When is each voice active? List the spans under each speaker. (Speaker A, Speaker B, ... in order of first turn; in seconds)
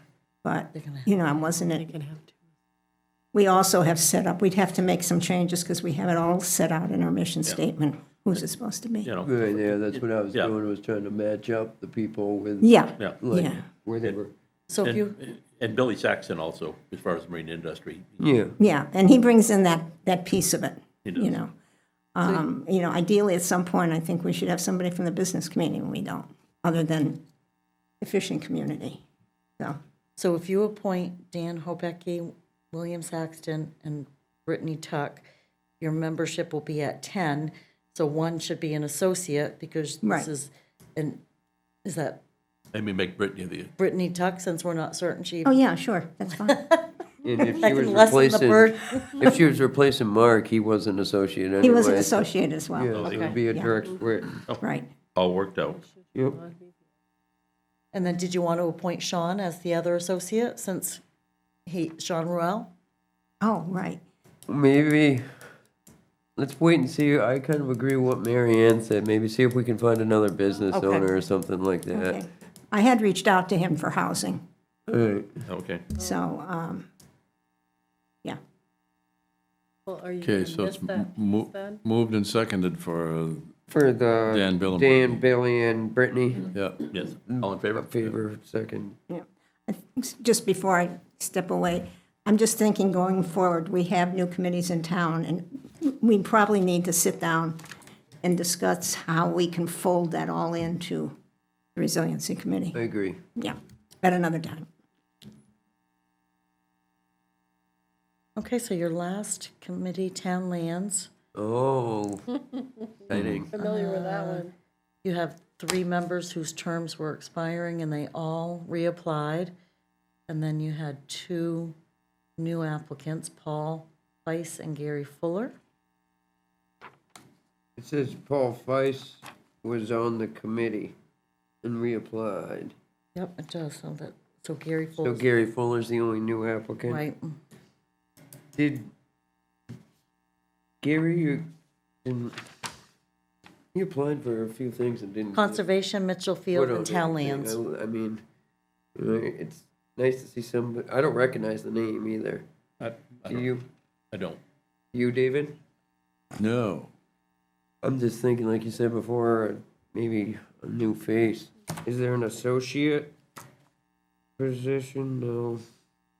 Speaker A: 0.4-2.0, 3.3-9.1, 12.6-13.6, 18.6-21.5, 22.1-27.2, 28.0-29.0, 40.0-40.3, 45.4-46.6, 51.6-53.8, 54.6-54.9, 63.4-64.0, 71.9-74.4, 76.0-76.9, 89.1-97.6, 98.2-101.1, 101.8-102.8, 103.3-104.7
Speaker B: 0.7-1.1, 14.7-15.2, 30.2-35.2, 35.8-41.2, 41.8-42.2, 43.8-45.5, 46.5-46.9, 47.4-49.2, 53.0-53.3, 57.9-61.0, 61.6-62.7, 70.7-71.1, 108.3-111.1, 113.5-114.5, 115.0-119.5, 120.3-121.7, 122.4-125.5, 133.1-135.2, 136.9-137.4, 145.3-147.6
Speaker C: 1.9-2.3, 56.2-56.8, 79.9-81.8, 113.5-114.5
Speaker D: 9.0-10.5, 14.8-18.3, 21.0-21.4, 42.7-43.7, 52.9-53.4, 55.1-55.8, 75.5-75.8, 86.9-88.2, 113.1-113.5, 152.8-153.6, 154.1-154.4
Speaker E: 9.2-14.3, 18.2-18.6, 47.2-54.4, 56.1-56.4, 64.5-65.4, 66.4-72.2, 74.9-75.4, 83.7-89.0, 102.7-103.2, 111.3-112.3, 113.1-113.4, 127.8-130.9, 131.6-132.7, 135.0-137.0, 138.5-138.9, 140.8-141.5, 142.0-142.5, 143.7-145.6, 146.5-148.2, 148.9-152.4, 153.3-153.6, 154.9-155.6, 157.8-163.1, 164.4-165.6
Speaker F: 80.2-83.5, 84.3-85.2, 113.1-113.4, 156.3-156.9